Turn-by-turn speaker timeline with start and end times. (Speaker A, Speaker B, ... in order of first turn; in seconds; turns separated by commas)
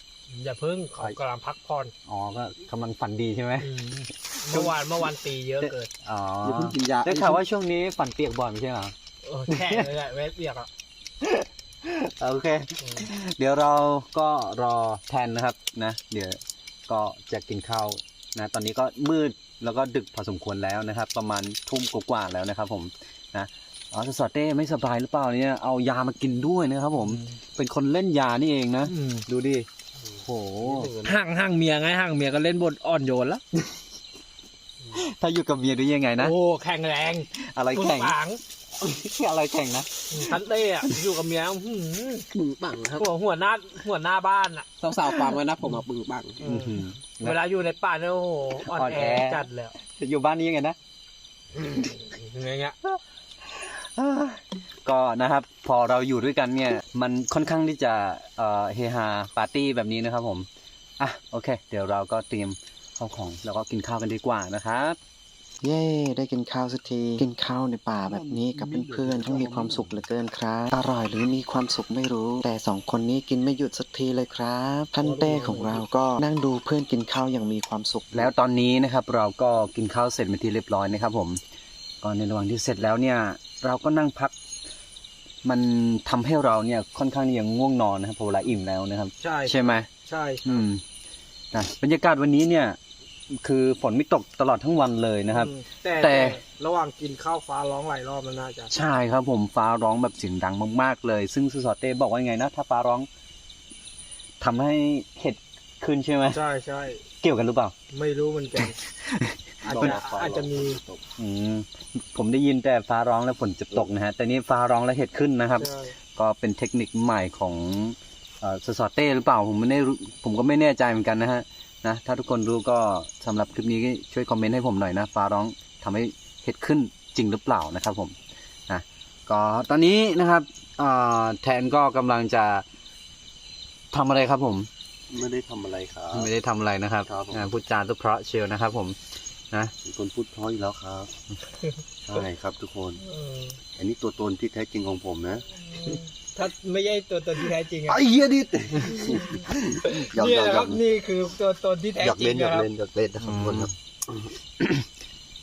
Speaker A: 0.3-1.9, Speaker B: 2.0-4.8, Speaker A: 3.6-5.9, Speaker B: 5.6-8.9, Speaker C: 6.4-7.4, Speaker A: 9.2-10.7, Speaker B: 9.5-9.9, Speaker B: 11.2-29.7, Speaker A: 12.8-13.1, Speaker A: 27.0-27.2, Speaker A: 28.9-29.2, Speaker B: 30.2-30.9, Speaker C: 30.6-31.2, Speaker A: 31.0-33.4, Speaker B: 34.9-36.3, Speaker A: 36.2-38.4, Speaker B: 37.4-38.2, Speaker B: 38.8-40.9, Speaker A: 40.1-42.3, Speaker D: 42.4-42.9, Speaker A: 42.9-45.8, Speaker D: 44.8-46.4, Speaker A: 46.4-49.7, Speaker B: 46.4-47.4, Speaker B: 48.6-50.8, Speaker A: 51.7-52.8, Speaker B: 53.5-60.5, Speaker B: 61.0-65.0, Speaker E: 65.6-78.3, Speaker C: 68.1-70.0, Speaker B: 78.1-81.4, Speaker B: 82.0-84.3, Speaker B: 85.4-89.9, Speaker A: 89.2-90.6, Speaker B: 90.4-90.8, Speaker B: 91.5-92.8, Speaker B: 93.3-96.4, Speaker A: 95.3-98.7, Speaker B: 98.7-103.1, Speaker B: 104.4-106.4, Speaker A: 106.3-107.0, Speaker B: 107.2-107.7, Speaker A: 107.9-108.8, Speaker B: 109.0-110.0, Speaker A: 109.6-110.8, Speaker C: 109.7-111.0, Speaker B: 111.2-128.1, Speaker A: 115.6-115.9, Speaker B: 128.7-132.6, Speaker B: 133.9-134.7, Speaker C: 135.1-136.3, Speaker B: 136.1-139.0, Speaker C: 137.0-137.5, Speaker C: 139.8-141.1, Speaker C: 142.1-143.0, Speaker A: 143.0-143.6, Speaker C: 143.8-146.0, Speaker A: 145.5-148.0, Speaker C: 147.4-150.8, Speaker A: 148.8-152.7, Speaker C: 152.0-154.3, Speaker B: 153.2-153.7, Speaker B: 154.6-154.8